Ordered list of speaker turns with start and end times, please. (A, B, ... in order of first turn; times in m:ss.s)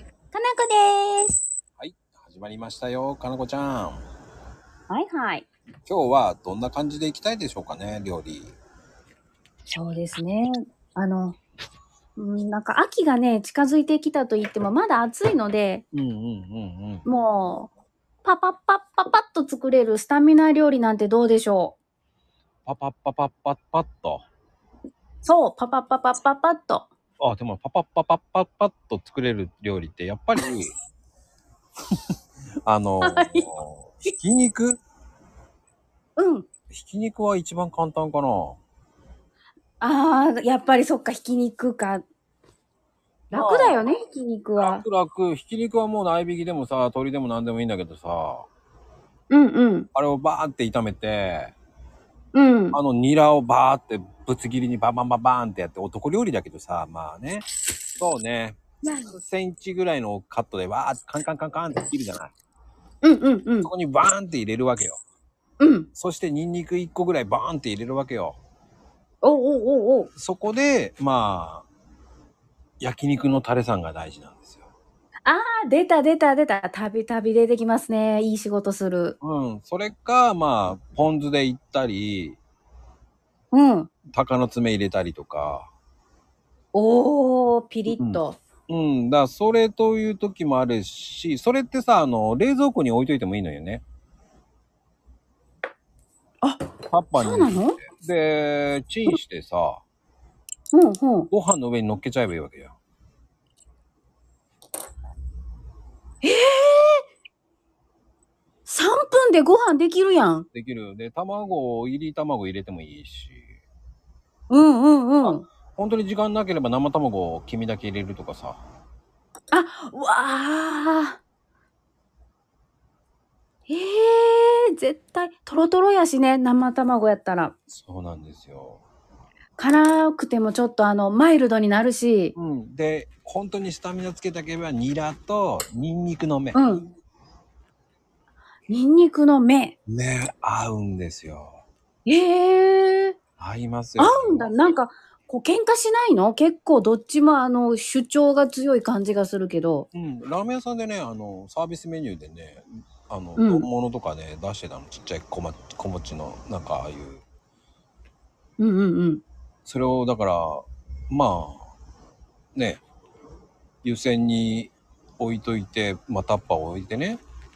0:00.3-0:01.4 A
0:01.8-0:04.0 B
0:04.9-0:05.5 A
0:05.9-0:08.6 B
0:09.7-0:11.4 A
0:12.2-0:15.8 A
0:15.9-0:17.0 B
0:17.0-0:17.7 A
0:18.2-0:21.8 A
0:22.7-0:24.2 B
0:25.2-0:26.9 A
0:27.2-0:30.7 B
0:32.7-0:34.8 B
0:33.0-0:33.5 A
0:36.2-0:36.5 A
0:36.7-0:38.6 B
0:39.8-0:42.0 A
0:43.3-0:44.8 A
0:43.3-0:43.9 B
0:44.6-0:48.5 B
0:49.3-0:49.9 A
0:49.9-0:51.5 B
0:52.3-0:52.8 A
0:52.7-0:58.6 B
0:58.8-0:59.1 A
0:59.1-1:02.3 B
1:03.0-1:03.7 A
1:03.6-1:05.0 B
1:05.6-1:05.9 A
1:06.0-1:08.4 B
1:09.2-1:10.1 A
1:10.2-1:11.7 B
1:12.8-1:14.7 B
1:15.3-1:19.2 A
1:19.2-1:22.4 B
1:23.5-1:23.9 A
1:24.1-1:25.7 B
1:26.7-1:28.4 A
1:28.0-1:33.8 B
1:36.4-1:37.8 A
1:36.9-1:39.8 B
1:40.7-1:41.3 A
1:41.3-1:42.8 B
1:46.2-1:47.0 A
1:48.7-1:50.5 A
1:50.5-1:53.5 B
1:54.5-1:55.5 A
1:55.2-1:58.6 B
1:59.5-2:01.2 A
2:03.7-2:07.6 A
2:07.7-2:08.8 B
2:09.6-2:12.4 A
2:12.4-2:16.6 B
2:16.5-2:16.9 A
2:18.7-2:19.8 A
2:19.9-2:21.6 B
2:22.1-2:23.2 A
2:23.4-2:24.5 B
2:24.0-2:29.9 A
2:29.9-2:37.2 B
2:33.4-2:33.7 A
2:38.6-2:39.2 A
2:39.7-2:41.7 B
2:42.6-2:42.8 B
2:43.8-2:47.2 B